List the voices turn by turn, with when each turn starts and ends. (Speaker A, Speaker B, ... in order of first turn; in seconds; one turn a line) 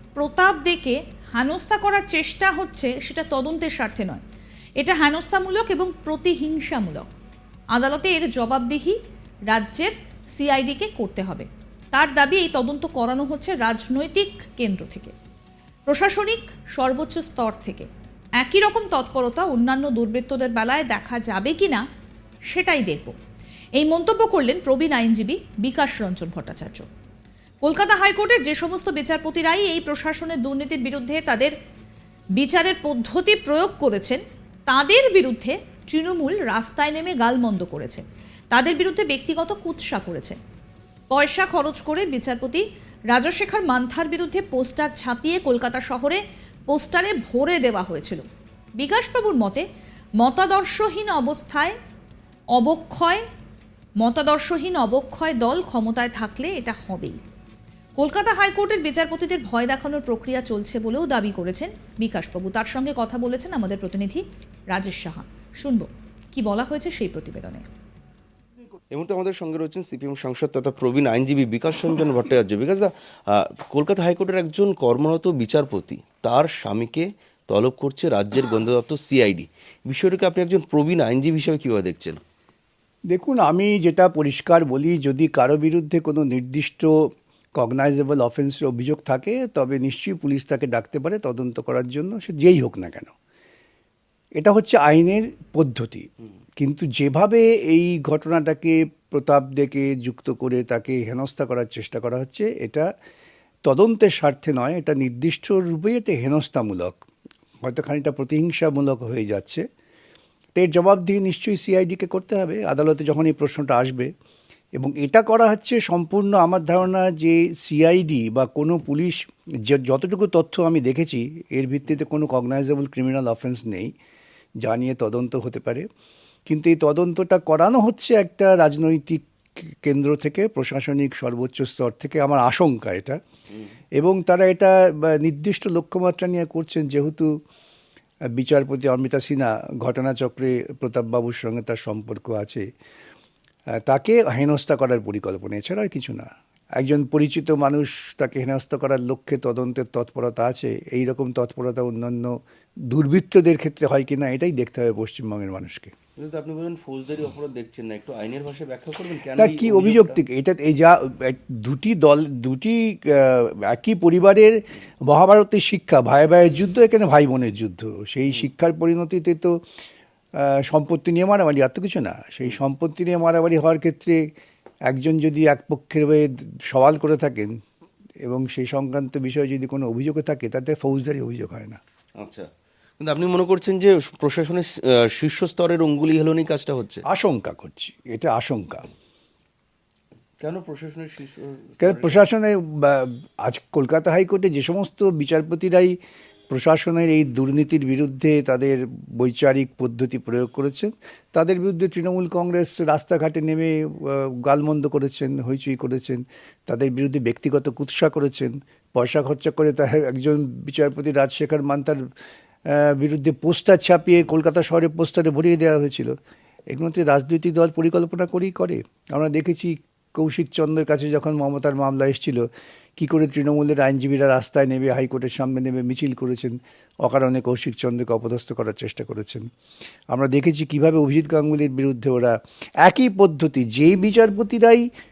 Speaker A: 0.2-4.2
Speaker A: 4.8-7.1
Speaker A: 7.7-8.9
Speaker A: 9.5-15.1
Speaker A: 15.9-17.9
Speaker A: 18.4-21.8
Speaker A: 22.5-23.1
Speaker A: 23.8-26.9
Speaker A: 27.6-31.5
Speaker A: 32.4-40.4
Speaker A: 41.1-48.2
Speaker A: 48.8-49.6
Speaker A: 50.2-51.7
Speaker A: 52.6-53.2
Speaker A: 54.0-57.2
Speaker A: 58.0-67.6
Speaker B: 68.9-82.2
Speaker C: 83.1-93.1
Speaker C: 94.4-102.9
Speaker C: 103.7-107.0
Speaker C: 107.6-109.6
Speaker C: 110.5-114.1
Speaker C: 114.8-123.9
Speaker C: 124.6-125.8
Speaker C: 126.5-133.2
Speaker C: 134.0-137.3
Speaker C: 138.4-142.6
Speaker C: 143.9-152.4
Speaker C: 152.9-155.9
Speaker B: 156.2-160.2
Speaker C: 159.3-169.5
Speaker C: 170.4-174.2
Speaker C: 174.9-177.5
Speaker C: 178.2-181.8
Speaker B: 182.2-182.5
Speaker B: 183.0-187.0
Speaker C: 187.1-188.9
Speaker B: 190.4-192.2
Speaker C: 191.8-195.9
Speaker C: 196.5-212.0
Speaker C: 212.7-216.1
Speaker C: 216.7-222.4
Speaker C: 223.0-229.4
Speaker C: 230.1-234.8